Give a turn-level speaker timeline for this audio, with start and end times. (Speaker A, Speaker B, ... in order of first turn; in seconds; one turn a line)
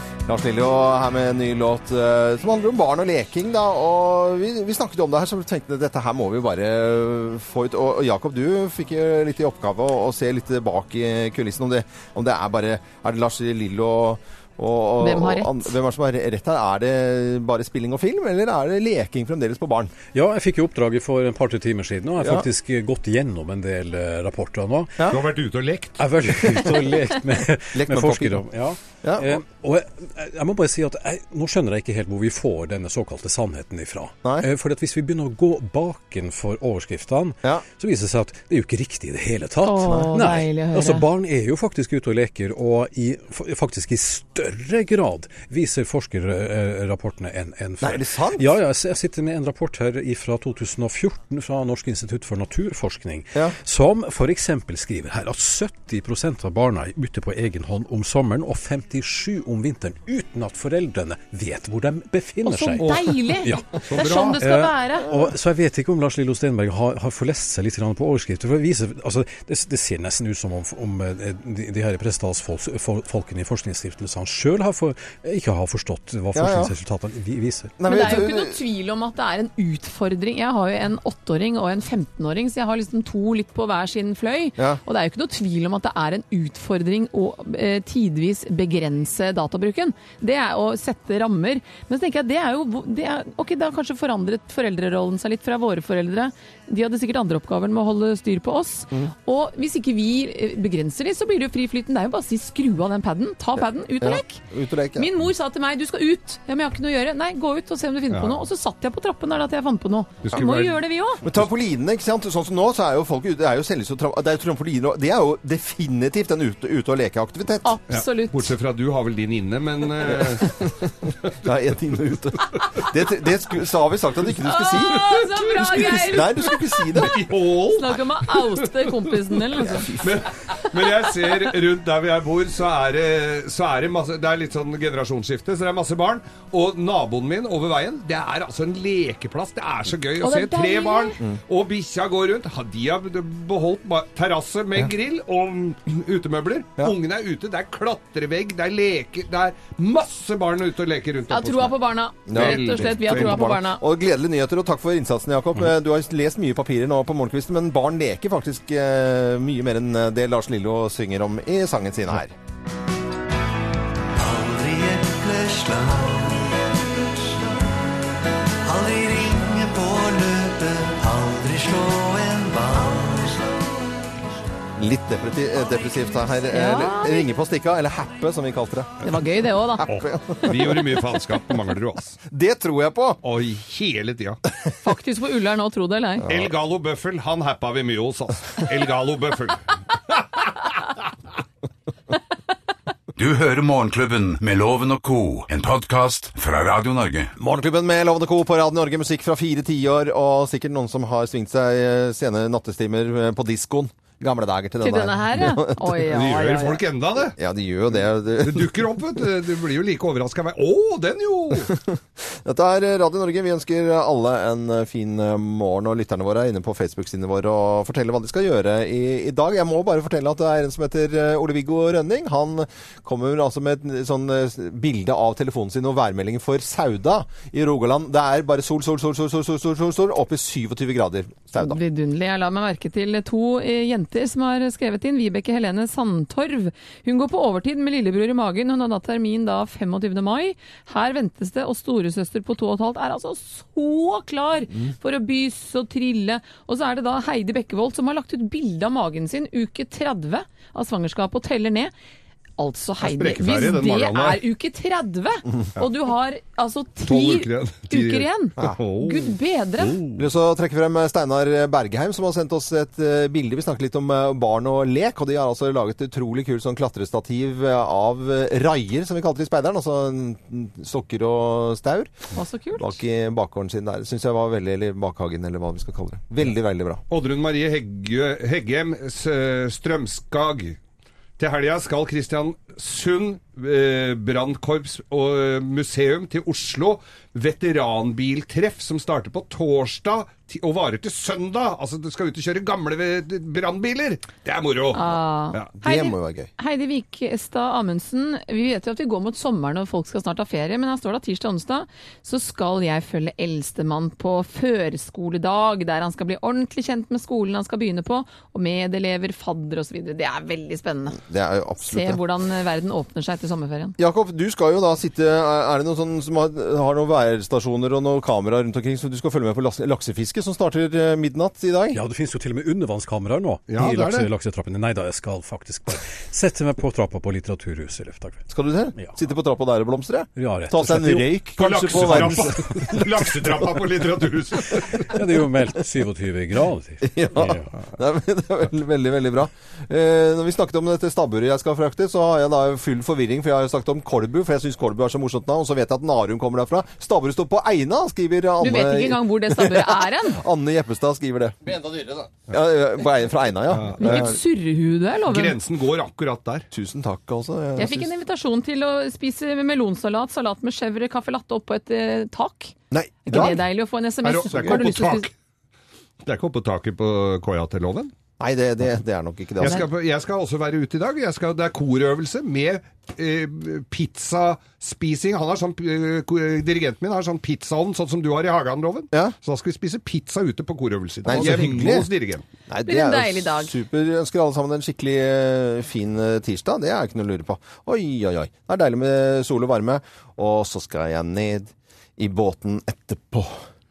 Speaker A: 0.2-19.9
Speaker B: 15.0-15.7
Speaker C: 20.1-25.0
Speaker A: 22.2-22.4
Speaker D: 25.1-26.4
Speaker C: 26.0-63.7
Speaker A: 26.4-26.9
Speaker A: 27.7-28.4
Speaker A: 29.0-29.4
Speaker B: 39.6-41.0
Speaker A: 47.8-48.5
Speaker B: 62.4-65.1
Speaker D: 62.8-63.1
Speaker D: 63.8-64.4
Speaker C: 64.4-77.8
Speaker A: 76.3-76.7
Speaker A: 77.8-78.6
Speaker B: 77.9-104.4
Speaker A: 104.0-105.1
Speaker B: 105.0-111.2
Speaker D: 108.1-108.4
Speaker D: 110.2-111.4
Speaker A: 111.2-117.8
Speaker B: 117.6-118.5
Speaker D: 117.9-120.5
Speaker A: 120.1-120.9
Speaker A: 121.4-127.2
Speaker B: 124.4-126.8
Speaker D: 125.2-126.0
Speaker D: 126.9-128.5
Speaker B: 127.7-130.0
Speaker D: 130.0-153.4
Speaker B: 140.2-141.2
Speaker B: 151.3-153.8
Speaker A: 152.3-162.3
Speaker E: 164.1-167.9
Speaker E: 168.6-173.8
Speaker A: 174.8-179.1
Speaker B: 176.5-177.3
Speaker B: 179.0-179.8
Speaker A: 179.8-181.0
Speaker D: 179.8-182.2
Speaker A: 182.3-183.2
Speaker D: 183.2-184.4
Speaker B: 184.8-186.3
Speaker D: 186.3-190.9
Speaker F: 193.2-197.3
Speaker A: 197.4-206.1
Speaker B: 204.8-206.8
Speaker D: 206.1-207.4
Speaker A: 207.4-209.0
Speaker D: 208.4-211.7
Speaker A: 211.7-231.8
Speaker B: 231.6-251.9
Speaker B: 252.6-259.9
Speaker D: 253.0-254.4
Speaker D: 257.1-260.2
Speaker A: 260.1-272.1
Speaker B: 272.3-273.0
Speaker A: 272.8-277.0
Speaker D: 277.1-280.8
Speaker D: 281.4-295.7
Speaker B: 294.9-311.2
Speaker A: 295.8-296.5
Speaker A: 311.2-312.2
Speaker B: 311.8-313.9
Speaker A: 314.0-322.0
Speaker C: 321.9-328.4
Speaker D: 323.7-324.3
Speaker A: 328.5-332.9
Speaker C: 330.4-333.0
Speaker D: 331.6-335.1
Speaker C: 335.0-337.7
Speaker A: 337.0-354.4
Speaker B: 348.6-350.4
Speaker D: 353.7-354.3
Speaker B: 354.0-355.6
Speaker D: 355.3-356.7
Speaker A: 356.7-358.1
Speaker B: 357.8-365.3
Speaker A: 362.9-363.6
Speaker D: 364.2-365.3
Speaker A: 364.4-364.8
Speaker D: 366.2-368.1
Speaker A: 368.4-369.9
Speaker D: 369.6-382.4
Speaker A: 381.2-382.1
Speaker A: 382.7-393.6
Speaker B: 382.8-383.8